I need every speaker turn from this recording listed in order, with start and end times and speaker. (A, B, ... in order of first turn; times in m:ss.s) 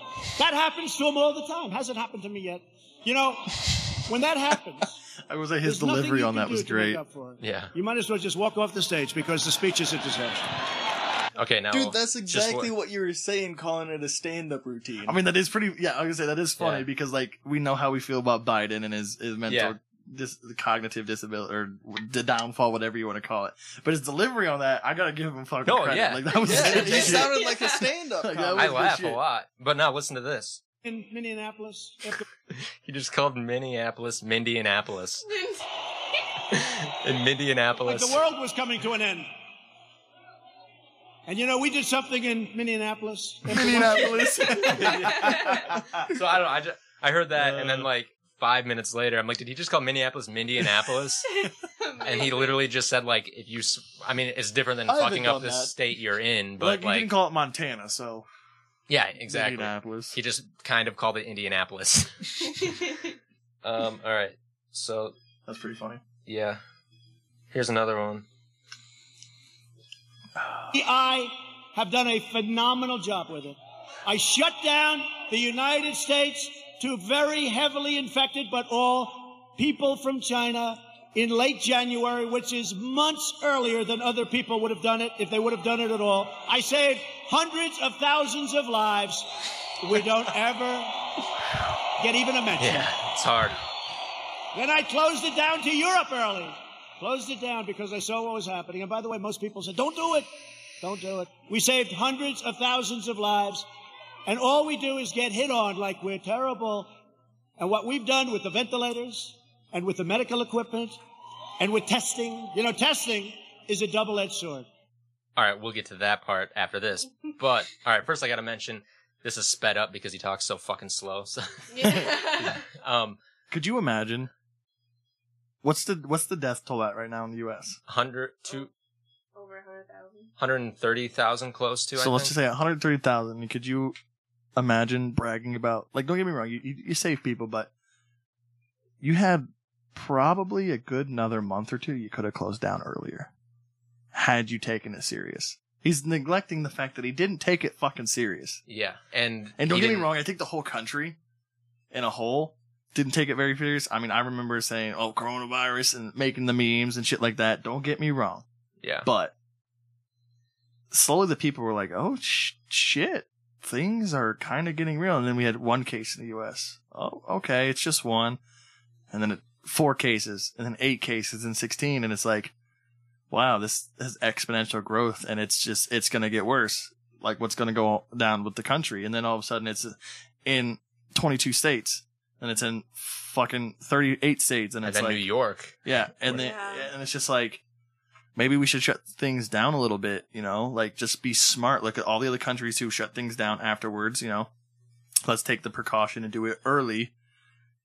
0:00.4-0:05.0 A
0:05.3-0:07.0 B
0:05.6-0:10.5 A
0:07.4-0:07.7 C
0:11.4-0:12.7 C
0:11.7-0:15.2 D
0:15.0-0:27.5 B
0:16.6-0:16.9 C
0:19.5-0:19.8 C
0:25.6-0:27.4 C
0:26.4-0:29.0 D
0:27.5-0:27.8 E
0:28.2-0:29.2 B
0:28.6-0:30.6 C
0:30.8-0:32.2 A
0:32.5-0:35.3 C
0:36.5-0:38.2 C
0:37.8-0:39.3 A
0:41.3-0:44.5 A
0:43.5-0:46.0 B
0:44.8-0:45.3 C
0:45.2-0:45.5 E
0:46.1-0:51.3 C
0:47.4-0:47.8 B
0:51.3-0:52.6 E
0:52.0-0:57.1 C
0:54.9-0:55.7 B
0:56.6-0:58.3 B
0:58.9-1:02.8 C
0:59.3-1:00.2 B
1:03.6-1:05.2 C
1:05.5-1:06.0 B
1:06.3-1:06.6 C
1:07.5-1:08.3 C
1:10.4-1:10.7 B
1:10.7-1:31.0 A
1:32.0-1:32.9 A
1:32.6-1:33.6 C
1:34.5-1:40.3 A
1:40.8-1:43.7 A
1:44.3-1:46.9 A
1:47.6-1:51.0 A
1:51.6-1:54.7 A
1:55.4-2:03.2 C
2:01.7-2:02.6 E
2:01.8-2:02.1 B
2:03.5-2:04.3 B
2:05.6-2:07.8 B
2:07.9-2:08.7 C
2:09.4-2:10.3 E
2:10.4-2:12.3 C
2:12.0-2:14.0 B
2:14.6-2:17.7 B
2:19.0-2:23.3 B
2:24.1-2:28.6 B
2:28.7-2:30.1 C
2:29.6-2:31.2 B
2:31.9-2:38.5 B
2:38.8-2:39.1 C
2:39.0-2:39.4 B
2:40.9-2:48.4 B
2:49.1-2:52.5 B
2:53.3-3:05.2 B
3:04.8-3:06.4 C
3:05.8-3:07.6 B
3:06.3-3:06.9 E
3:08.4-3:14.5 B
3:15.2-3:17.1 B